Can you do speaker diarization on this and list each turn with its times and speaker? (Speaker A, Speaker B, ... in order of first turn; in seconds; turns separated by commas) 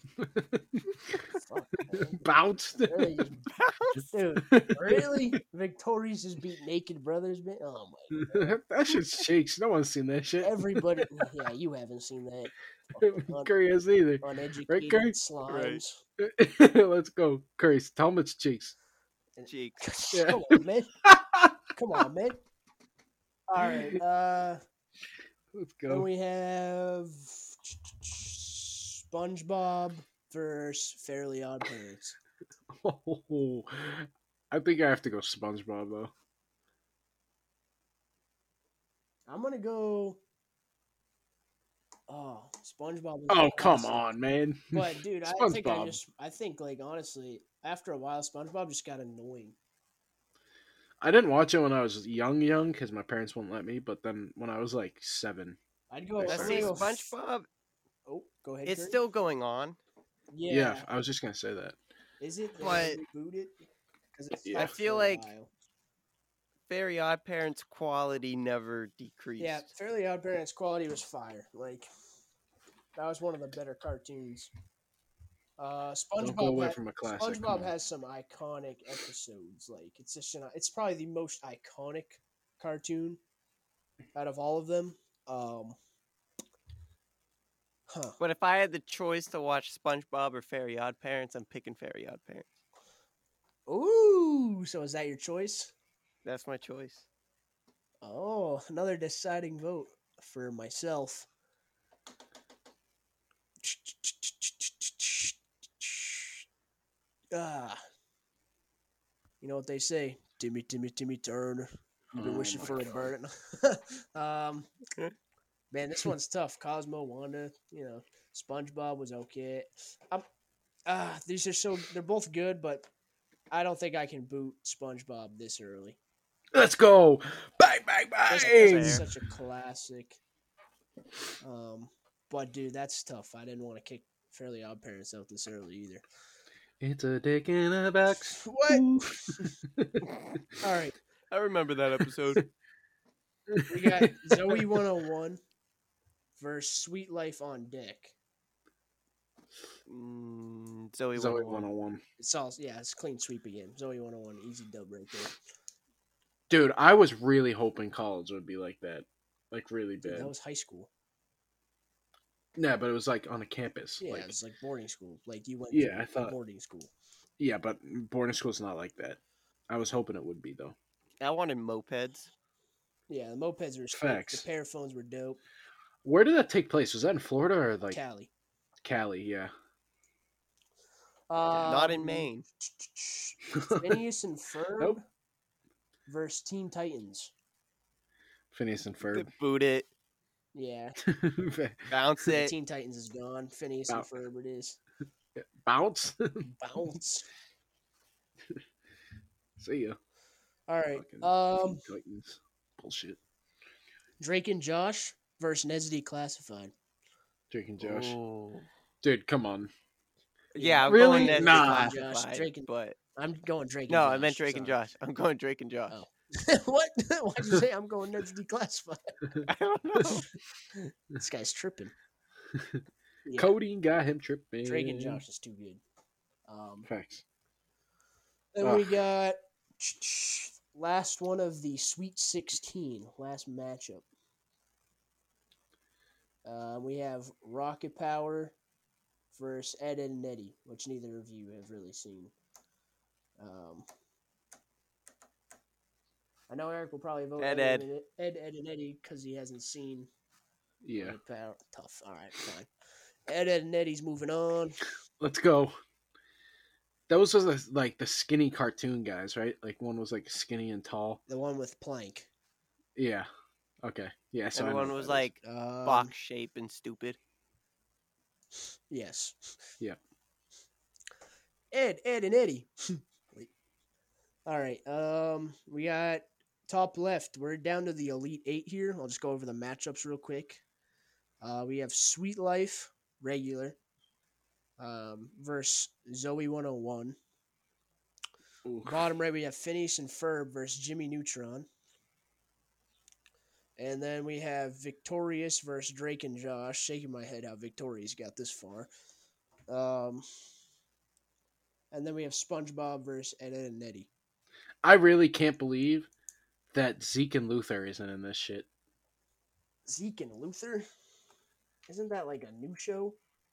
Speaker A: 0.1-1.2, Speaker B: 1.3-2.2, Speaker A: 1.9-3.2, Speaker B: 2.8-3.4, Speaker C: 3.5-4.0, Speaker B: 4.1-8.6, Speaker A: 4.5-5.3, Speaker A: 8.1-11.2, Speaker B: 10.4-13.5, Speaker A: 13.0-15.1, Speaker B: 14.2-16.0, Speaker C: 15.5-15.8, Speaker A: 16.2-18.7, Speaker B: 19.4-20.9, Speaker C: 19.5-19.8, Speaker A: 20.1-21.6, Speaker B: 21.7-22.4, Speaker B: 23.5-24.6, Speaker A: 23.6-24.0, Speaker A: 25.5-26.1, Speaker B: 25.9-32.1, Speaker A: 32.7-36.1, Speaker B: 39.3-40.2, Speaker B: 42.1-44.1, Speaker A: 43.3-46.0, Speaker B: 44.7-49.5, Speaker A: 51.0-55.6, Speaker B: 55.9-57.1, Speaker A: 56.2-56.8, Speaker C: 56.3-57.5, Speaker B: 58.1-59.0, Speaker C: 58.6-59.8, Speaker B: 60.3-60.9, Speaker A: 60.5-61.8, Speaker B: 62.2-63.5, Speaker C: 62.6-63.0, Speaker B: 64.1-65.5, Speaker A: 64.4-64.7, Speaker C: 64.5-65.3, Speaker C: 66.7-69.7, Speaker B: 69.4-71.9, Speaker B: 73.0-74.5, Speaker B: 75.6-83.2, Speaker A: 76.2-77.7, Speaker B: 84.1-85.8, Speaker B: 87.9-88.2, Speaker C: 88.2-92.5, Speaker B: 93.7-95.7, Speaker C: 96.2-97.0, Speaker B: 98.0-101.3, Speaker B: 103.6-106.4, Speaker B: 107.3-107.8, Speaker B: 109.4-114.7, Speaker A: 112.1-113.1, Speaker B: 115.7-120.2, Speaker B: 120.8-122.9, Speaker B: 123.5-126.0, Speaker A: 126.5-129.1, Speaker B: 128.3-130.2, Speaker C: 128.4-129.0, Speaker B: 131.4-136.0, Speaker A: 136.8-140.4, Speaker B: 138.2-139.5, Speaker B: 140.6-140.9, Speaker C: 141.3-142.4, Speaker A: 143.5-144.8, Speaker B: 143.7-145.4, Speaker B: 146.4-148.1, Speaker C: 149.9-151.7, Speaker A: 151.1-152.0, Speaker B: 152.2-155.3, Speaker A: 156.5-160.3, Speaker B: 160.0-160.9, Speaker A: 162.6-164.3, Speaker B: 164.0-166.9, Speaker A: 165.7-166.3, Speaker A: 167.4-170.7, Speaker C: 171.2-172.3, Speaker B: 173.1-175.4, Speaker A: 173.9-174.4, Speaker A: 176.0-178.0, Speaker B: 177.9-178.3, Speaker A: 178.8-179.5, Speaker B: 181.3-185.0, Speaker C: 181.6-182.4, Speaker A: 183.5-184.0, Speaker B: 186.1-187.3, Speaker A: 188.5-189.3, Speaker C: 189.1-189.9, Speaker B: 190.5-191.0, Speaker A: 191.0-191.9, Speaker C: 191.9-192.5, Speaker B: 192.3-194.8, Speaker A: 195.3-196.5, Speaker B: 196.4-197.3, Speaker A: 199.6-200.0, Speaker B: 200.7-201.8, Speaker A: 200.9-203.2, Speaker B: 204.2-206.7, Speaker A: 207.5-208.2, Speaker C: 207.8-208.7, Speaker A: 209.0-209.7, Speaker B: 210.5-214.8, Speaker C: 210.6-212.9, Speaker A: 210.9-211.9, Speaker C: 213.9-215.9, Speaker B: 215.9-219.2, Speaker C: 219.4-220.3, Speaker B: 221.1-221.9, Speaker A: 222.5-222.8, Speaker B: 223.2-223.5, Speaker A: 223.3-225.2, Speaker B: 224.6-225.8, Speaker B: 226.5-226.9, Speaker A: 226.8-227.2, Speaker B: 228.5-234.0, Speaker A: 228.6-229.0, Speaker B: 236.4-238.5, Speaker B: 239.3-242.3, Speaker B: 243.4-243.8, Speaker B: 246.5-250.1, Speaker C: 247.4-247.9, Speaker A: 250.8-251.2, Speaker B: 250.9-252.7, Speaker B: 253.3-254.8, Speaker A: 255.2-255.8, Speaker A: 257.1-261.2, Speaker B: 261.3-262.3, Speaker A: 262.9-263.3, Speaker A: 263.8-265.3, Speaker C: 264.5-267.2, Speaker B: 265.4-266.1, Speaker B: 268.9-269.6, Speaker B: 271.7-273.5, Speaker B: 274.4-280.6, Speaker B: 281.4-283.8, Speaker B: 284.8-287.2, Speaker A: 288.6-289.1, Speaker B: 288.8-291.7, Speaker B: 293.8-298.9, Speaker B: 299.7-300.2, Speaker B: 301.9-304.1, Speaker A: 304.8-306.1, Speaker A: 306.7-308.7, Speaker B: 309.9-310.9, Speaker B: 311.9-313.2